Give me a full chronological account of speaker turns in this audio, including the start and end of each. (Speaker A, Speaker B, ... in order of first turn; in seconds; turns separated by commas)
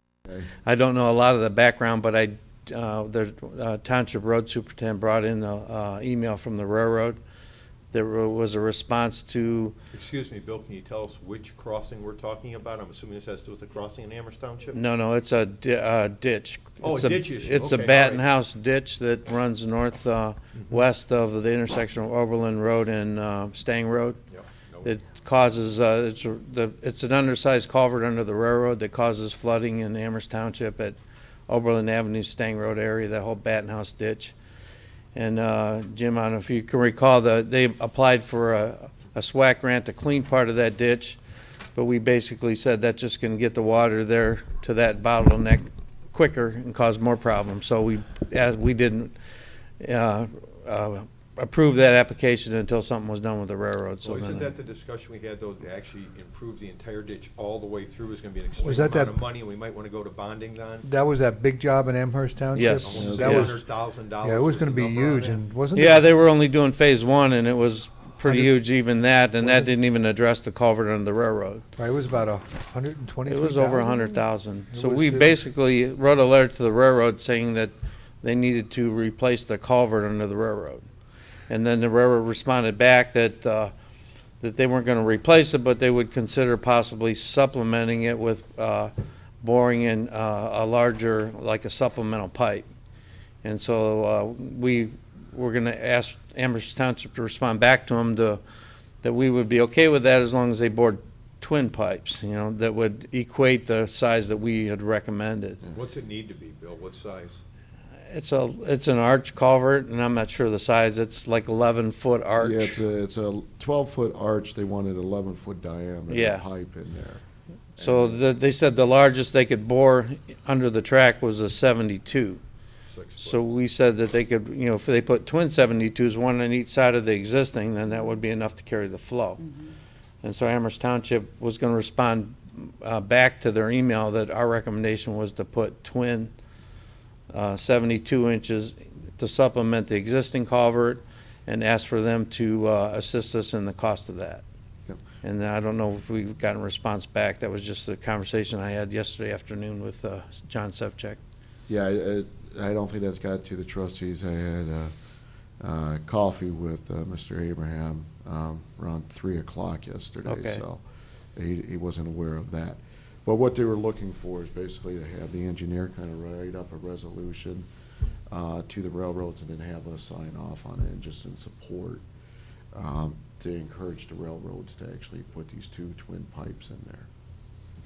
Speaker A: 0.6-7.2, Speaker A: 7.9-9.7, Speaker B: 9.9-14.8, Speaker A: 14.7-24.2, Speaker B: 16.8-18.2, Speaker B: 24.3-24.9, Speaker A: 24.8-31.0, Speaker A: 31.5-34.3, Speaker A: 35.1-41.2, Speaker A: 41.7-49.1, Speaker A: 49.8-54.5, Speaker B: 54.0-60.9, Speaker C: 58.6-59.2, Speaker C: 60.8-63.6, Speaker A: 62.5-63.5, Speaker B: 62.7-65.4, Speaker D: 63.0-63.5, Speaker C: 64.2-66.1, Speaker A: 65.7-71.6, Speaker C: 68.2-68.6, Speaker C: 69.4-69.7, Speaker C: 71.8-74.2, Speaker A: 73.2-80.8, Speaker C: 74.7-75.4, Speaker A: 81.5-83.7, Speaker A: 84.4-92.7, Speaker A: 93.4-98.4, Speaker A: 99.0-105.6, Speaker B: 105.7-107.4, Speaker A: 108.1-112.8, Speaker D: 112.4-117.2, Speaker A: 116.1-116.5, Speaker D: 117.8-118.2, Speaker A: 117.8-122.4, Speaker B: 122.9-123.4, Speaker A: 123.2-129.4, Speaker A: 130.2-136.3, Speaker A: 137.3-144.4, Speaker A: 145.2-151.2, Speaker D: 151.7-154.9, Speaker D: 155.6-167.7, Speaker A: 160.2-160.6, Speaker D: 168.3-172.0, Speaker D: 172.7-177.1